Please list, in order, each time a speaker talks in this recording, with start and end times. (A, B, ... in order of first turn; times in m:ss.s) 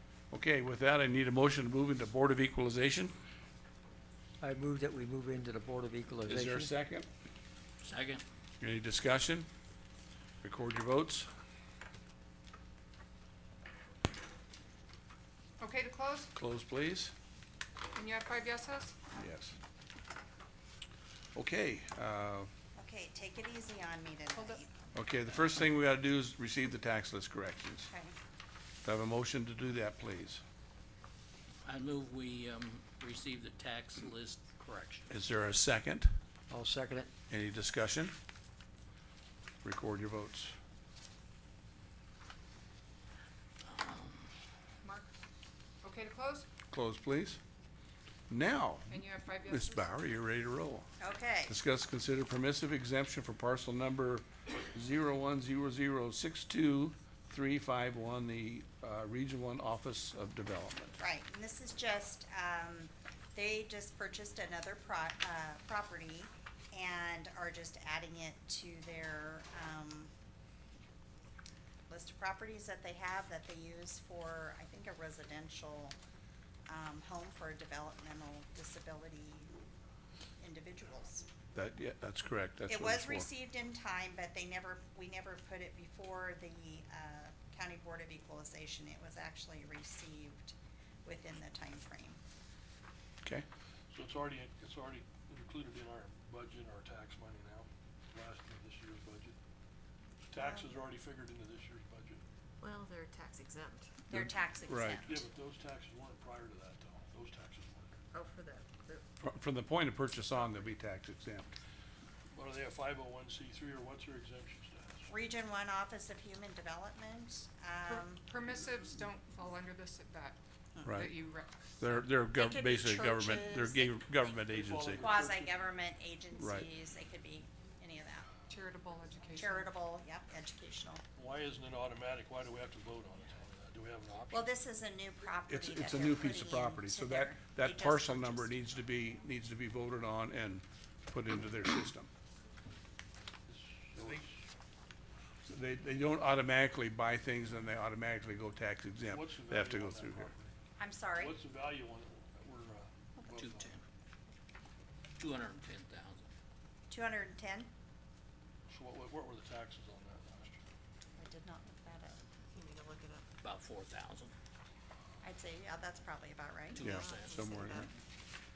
0:00.3-0:03.1 A
0:04.4-0:06.7 B
0:06.3-0:07.1 A
0:07.8-0:08.2 C
0:08.6-0:09.5 A
0:10.4-0:11.3 A
0:15.6-0:16.3 D
0:16.4-0:17.1 A
0:17.9-0:18.9 D
0:19.2-0:19.6 A
0:21.4-0:22.5 A
0:22.8-0:24.7 E
0:24.3-0:24.6 D
0:25.0-0:27.9 A
0:28.8-0:30.4 A
0:31.6-0:35.1 C
0:35.1-0:36.1 A
0:36.5-0:37.1 B
0:37.3-0:38.1 A
0:39.6-0:40.6 A
0:43.6-0:44.3 C
0:44.8-0:45.1 D
0:45.8-0:46.5 D
0:46.7-0:47.4 A
0:48.3-0:50.9 A
0:48.9-0:49.9 D
0:51.0-0:51.6 E
0:51.5-1:01.0 A
1:01.0-1:10.1 E
1:11.9-1:16.0 E
1:16.7-1:19.5 E
1:20.4-1:21.3 E
1:21.5-1:23.3 A
1:22.7-1:32.2 E
1:33.9-1:39.4 F
1:40.3-1:42.2 F
1:40.4-1:40.8 E
1:42.6-1:43.9 G
1:44.1-1:45.2 E
1:44.1-1:45.1 A
1:45.1-1:48.0 F
1:48.1-1:49.0 G
1:49.2-1:51.5 A
1:52.3-1:55.1 F
1:55.1-1:58.3 E
1:57.9-2:01.9 D
2:00.8-2:01.1 A
2:01.8-2:05.1 A
2:02.3-2:04.0 E
2:04.4-2:05.6 F
2:05.0-2:08.3 E
2:06.4-2:06.7 A
2:08.5-2:09.7 D
2:09.4-2:11.0 E
2:11.2-2:14.5 F
2:14.3-2:18.8 E
2:15.5-2:22.1 A
2:23.5-2:24.4 F
2:25.5-2:30.3 A
2:29.1-2:30.5 F
2:30.8-2:31.4 E
2:31.2-2:33.8 F
2:33.4-2:33.8 C
2:35.2-2:36.3 C
2:36.9-2:37.7 E
2:38.7-2:40.6 F
2:41.2-2:42.2 E
2:42.5-2:43.3 G
2:43.4-2:44.3 C
2:45.2-2:46.8 E
2:46.7-2:47.5 C
2:46.8-2:47.9 A
2:46.8-2:47.9 G